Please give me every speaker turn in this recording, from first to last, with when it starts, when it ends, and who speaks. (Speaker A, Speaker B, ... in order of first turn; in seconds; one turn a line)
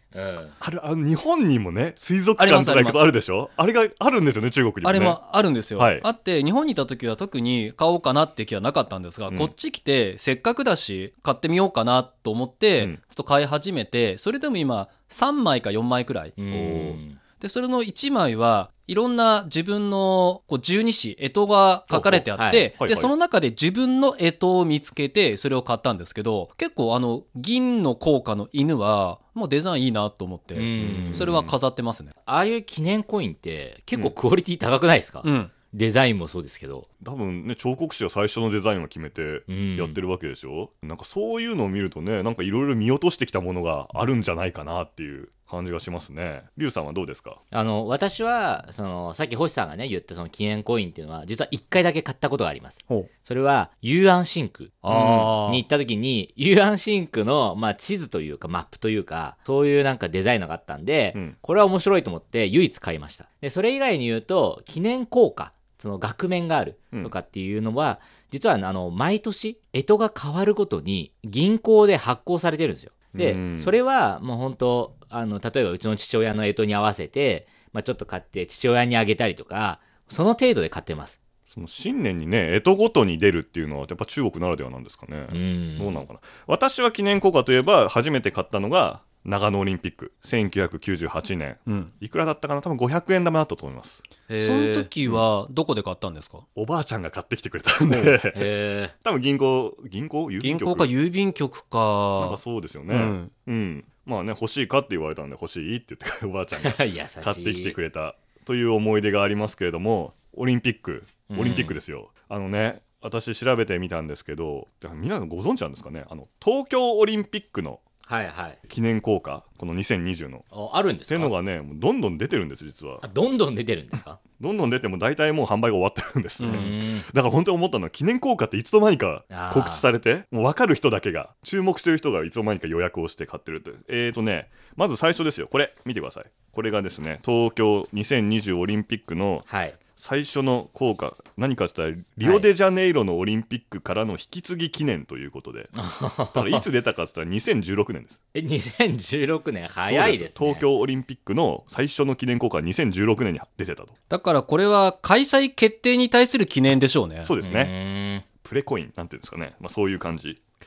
Speaker A: 0.1-0.5
Speaker B: 0.6-5.2
Speaker C: 2.4-3.1
Speaker C: 4.8-16.4
Speaker B: 5.8-6.0
Speaker A: 16.4-17.2
Speaker B: 16.5-17.0
Speaker C: 17.4-32.1
Speaker B: 21.9-23.1
Speaker A: 22.4-22.7
Speaker A: 30.5-31.3
Speaker B: 30.8-31.5
Speaker A: 32.2-36.9
Speaker C: 35.2-35.5
Speaker B: 37.0-47.4
Speaker A: 39.5-40.0
Speaker A: 47.5-54.8
Speaker C: 54.8-55.6
Speaker B: 54.9-55.3
Speaker A: 55.4-81.2
Speaker B: 73.1-73.8
Speaker B: 81.5-94.0
Speaker A: 85.3-86.0
Speaker C: 91.7-91.9
Speaker A: 94.3-94.9
Speaker C: 94.4-96.4
Speaker B: 96.5-98.5
Speaker C: 97.9-98.1
Speaker A: 98.3-98.9
Speaker B: 99.0-100.9
Speaker C: 100.4-103.3
Speaker B: 102.2-117.8
Speaker A: 106.5-107.8
Speaker A: 111.3-111.8
Speaker A: 118.0-118.6
Speaker B: 118.7-120.5
Speaker A: 120.5-121.3
Speaker B: 121.1-123.0
Speaker A: 123.0-124.2
Speaker B: 124.4-139.4
Speaker C: 126.4-126.7
Speaker A: 126.4-127.1
Speaker A: 129.3-129.9
Speaker A: 139.4-139.8
Speaker B: 140.0-145.7
Speaker A: 142.2-142.5
Speaker A: 145.7-146.6
Speaker B: 146.3-148.2
Speaker A: 148.3-150.7
Speaker B: 149.8-153.9
Speaker C: 154.1-157.3
Speaker B: 157.2-157.7
Speaker A: 157.4-158.2
Speaker B: 158.4-160.4